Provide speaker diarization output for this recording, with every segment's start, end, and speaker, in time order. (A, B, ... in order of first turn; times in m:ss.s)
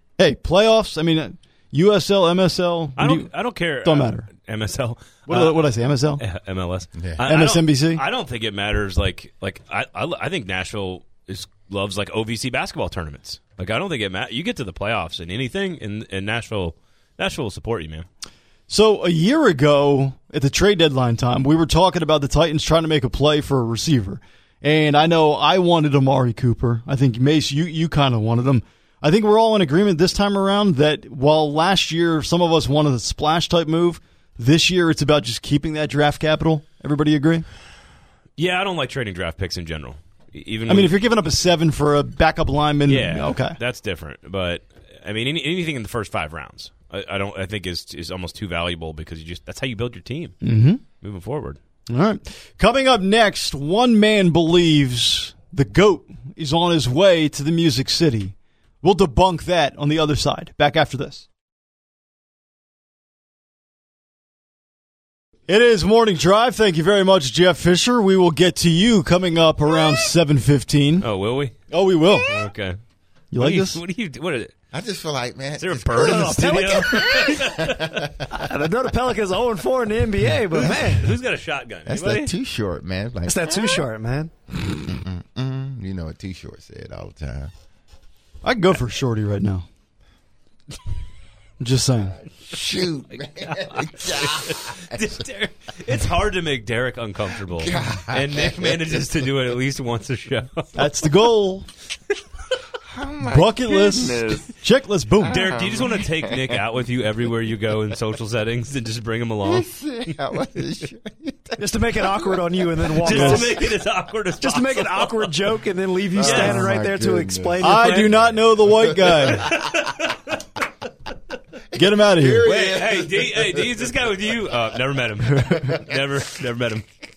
0:00.2-0:03.3 A
0:03.0-0:05.6 B
0:03.8-0:04.3 A
0:05.3-0:06.2 A
0:06.2-0:18.1 B
0:07.0-0:07.2 C
0:07.3-0:08.0 A
0:18.7-0:37.5 A
0:38.4-0:40.9 B
0:40.7-0:43.6 A
0:42.9-0:50.4 B
0:50.4-0:50.8 A
0:51.0-0:51.6 B
0:51.9-1:01.3 A
1:05.5-1:11.1 A
1:11.0-1:11.6 B
1:11.7-1:12.3 A
1:12.2-1:12.8 B
1:13.3-1:13.8 A
1:13.4-1:14.5 B
1:14.7-1:18.3 C
1:15.6-1:18.1 B
1:16.0-1:16.8 A
1:18.3-1:21.1 D
1:20.6-1:21.0 C
1:20.6-1:22.3 B
1:21.9-1:23.8 C
1:23.3-1:24.3 D
1:24.8-1:27.5 C
1:28.4-1:29.7 A
1:31.6-1:32.2 A
1:32.3-1:35.1 C
1:33.5-1:40.8 B
1:37.4-1:39.0 C
1:40.8-1:41.7 A
1:42.8-1:44.4 C
1:43.2-1:45.4 A
1:45.2-1:46.6 C
1:45.3-1:49.7 B
1:49.4-1:52.4 C
1:51.6-1:53.7 D
1:52.9-1:55.3 B
1:53.1-1:53.4 A
1:54.4-1:58.1 D
1:56.1-2:00.0 C
1:56.2-1:56.7 B
1:57.6-1:59.5 A
1:59.3-2:00.4 B
2:01.7-2:03.7 C
2:01.7-2:02.4 A
2:02.4-2:06.9 B
2:05.5-2:06.0 C